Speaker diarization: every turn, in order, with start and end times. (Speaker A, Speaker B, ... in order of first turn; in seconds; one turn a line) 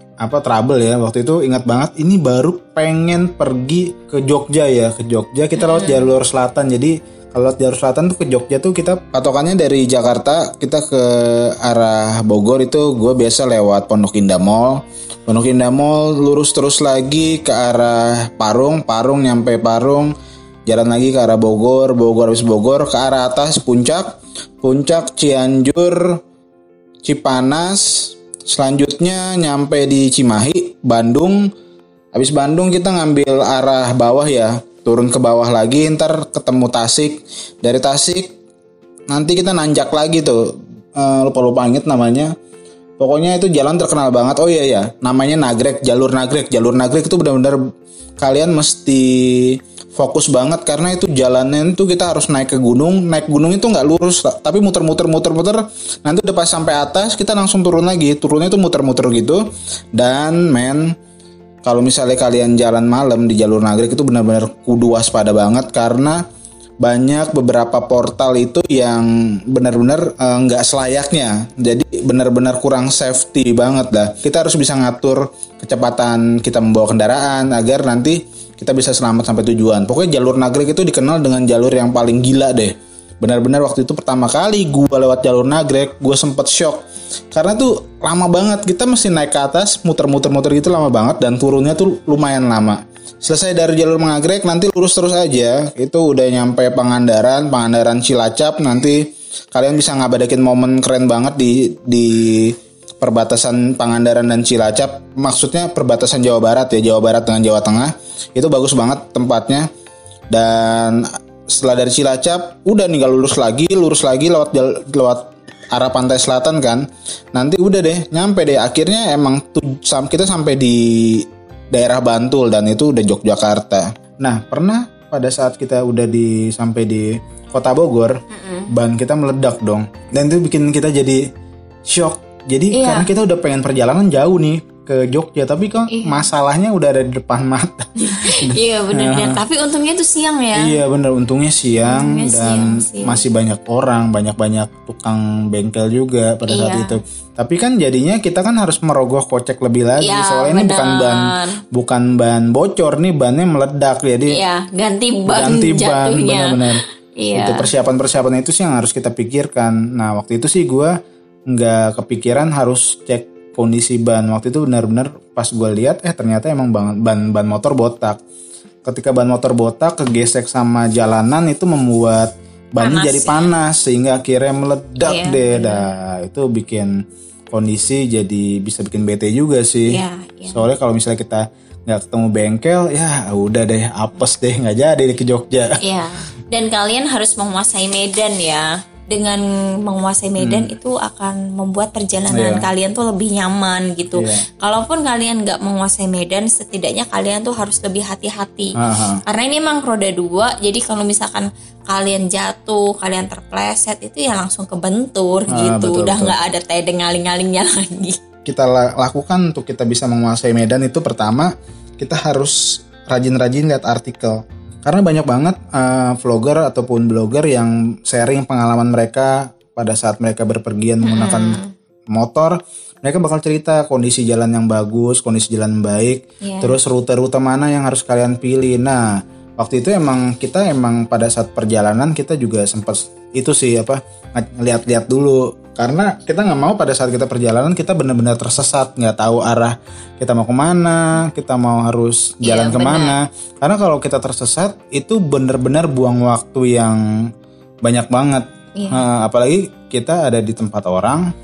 Speaker A: 0.2-20.1
Speaker B: 5.6-6.1
Speaker A: 20.7-26.2
Speaker A: 27.0-31.4
Speaker A: 32.1-38.4
Speaker A: 39.1-42.3
Speaker A: 43.0-47.6
Speaker A: 48.2-59.4
Speaker A: 60.0-60.9
Speaker A: 61.6-66.2
Speaker A: 66.8-109.7
Speaker A: 110.3-131.2
Speaker B: 128.3-128.7
Speaker A: 131.9-139.4
Speaker B: 132.7-133.1
Speaker B: 135.9-136.3
Speaker B: 138.0-140.8
Speaker A: 140.6-154.4
Speaker B: 141.8-143.3
Speaker B: 146.5-147.0
Speaker B: 150.0-151.6
Speaker B: 154.3-157.7
Speaker A: 155.3-156.8
Speaker A: 157.3-160.9
Speaker A: 161.5-168.2
Speaker A: 168.8-185.8
Speaker B: 172.8-173.5
Speaker B: 175.0-175.9
Speaker B: 179.9-180.7
Speaker B: 185.8-208.2
Speaker A: 190.4-190.7
Speaker A: 192.3-192.7
Speaker A: 194.2-194.5
Speaker A: 198.8-199.2
Speaker A: 205.5-206.3
Speaker A: 208.4-221.6
Speaker B: 221.0-221.7
Speaker A: 222.1-247.0
Speaker B: 226.4-226.8
Speaker B: 242.4-243.2
Speaker A: 247.8-251.3
Speaker B: 248.8-249.0